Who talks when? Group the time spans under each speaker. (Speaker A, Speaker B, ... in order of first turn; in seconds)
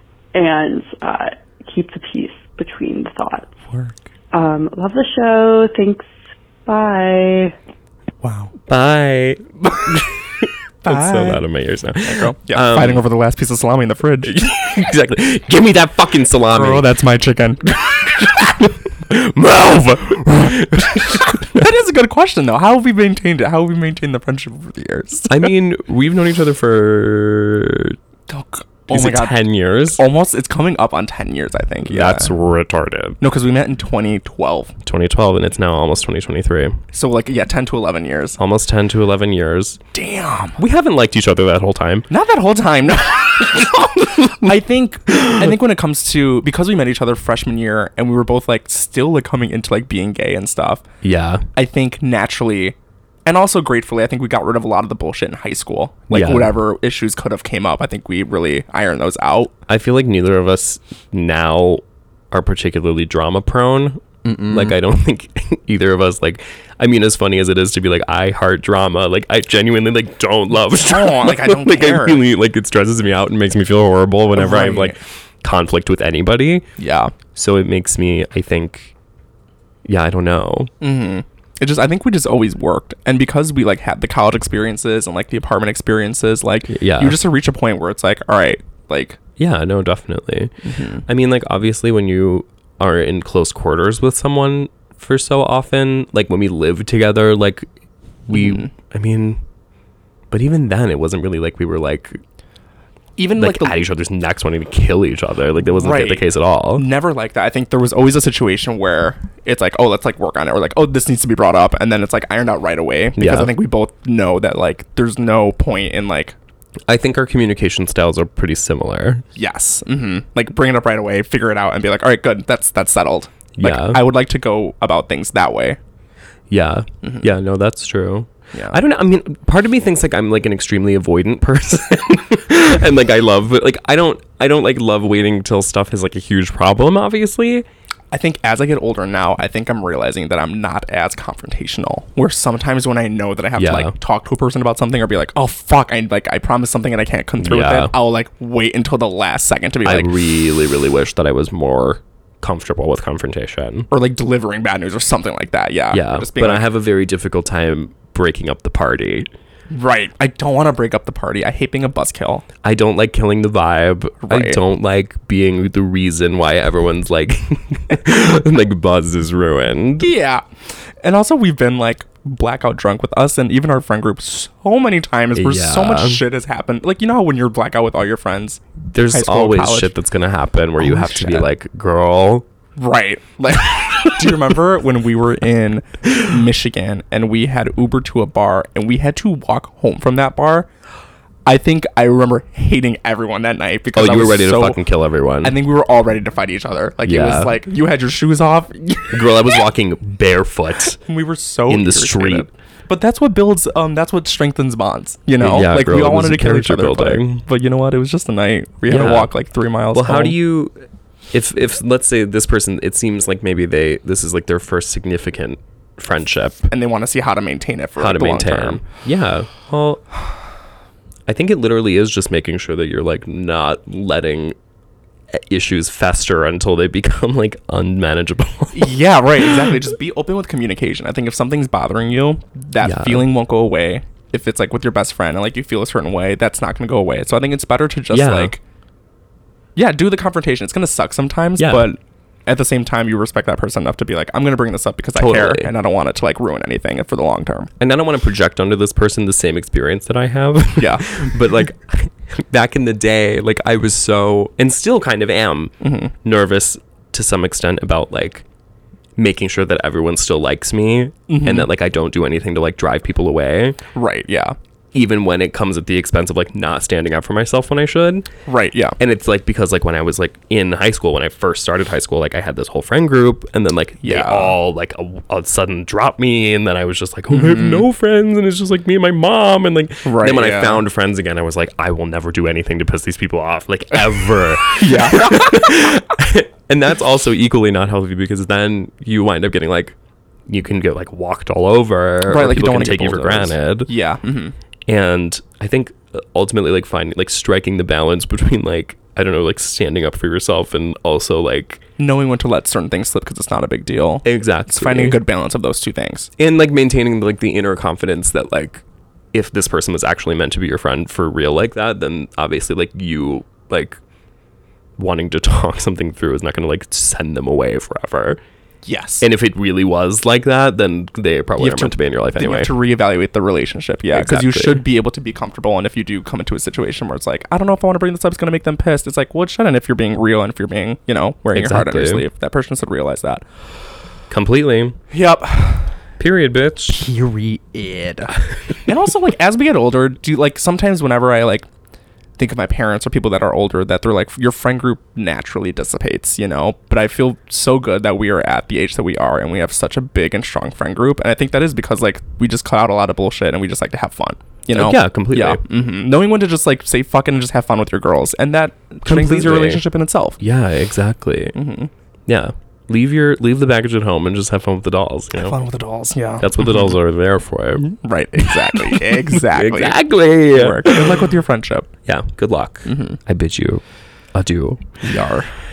Speaker A: 0.3-3.5, 4.3-6.1, 6.7-7.5
Speaker B: 3.7-4.0, 8.2-8.5, 10.8-11.4, 12.0-14.5, 16.5-17.7, 20.8-25.5, 28.3-32.3, 33.2-34.7, 36.9-38.4, 39.9-40.6, 42.1-50.8, 51.6-52.8, 53.3-59.5, 64.2-64.8, 70.8-72.2, 74.3-75.0, 76.8-77.1, 80.8-89.2, 90.6-91.0, 98.3-98.7, 103.2-103.8, 105.6-116.3, 119.3-125.8, 127.0-127.3, 128.5-128.8, 138.1-150.1, 153.9-156.7, 159.7-162.4, 164.2-164.6, 170.0-170.4, 171.0-179.9, 180.8-181.5, 182.8-190.7, 191.5-194.8, 195.4-199.4, 201.0-210.4, 216.7-218.8, 228.7-238.6, 239.8-247.7, 250.8-251.3, 255.8-256.1, 261.3-261.7, 263.9-264.6, 268.5-269.0, 274.0-274.6, 277.3-277.9, 280.0-280.8, 284.8-285.7, 292.3-294.5, 302.0-306.3, 318.9-319.3, 321.6-333.4, 335.1-335.9, 336.9-341.7, 342.4-360.4, 361.5-361.9, 365.4-366.9, 368.0-371.9, 372.9-373.2, 375.0-375.5
Speaker C: 8.7-13.1, 14.2-16.9, 17.8-21.6, 25.3-28.0, 28.9-30.0, 31.8-33.2, 34.9-36.8, 38.4-39.8, 40.6-42.1, 44.0-44.5, 45.1-45.4, 51.0-51.5, 56.1-56.6, 59.7-76.7, 77.3-78.9, 79.8-80.7, 86.7-87.2, 89.4-97.7, 98.3-99.4, 100.3-102.2, 103.4-106.9, 113.2-113.5, 116.9-119.2, 123.6-124.0, 126.5-137.7, 143.6-143.9, 147.4-147.9, 149.8-153.9, 155.9-159.3, 162.6-170.1, 175.3-176.2, 178.9-182.5, 193.9-195.6, 197.0-197.6, 199.1-201.0, 201.7-202.5, 205.4-207.4, 208.9-209.3, 209.9-216.7, 218.0-220.1, 221.3-224.6, 225.3-229.7, 232.8-233.3, 238.1-238.6, 241.6-241.9, 245.2-245.7, 247.8-258.4, 259.2-263.8, 264.9-268.3, 269.0-290.0, 290.5-293.9, 294.9-301.8, 304.2-305.2, 306.4-314.0, 315.0-318.4, 319.2-322.7, 324.1-324.8, 331.5-332.3, 334.3-335.0, 336.2-337.1, 354.7-355.6, 359.1-359.8, 360.4-361.6, 362.3-365.6, 366.4-371.2, 372.1-373.8, 374.3-375.0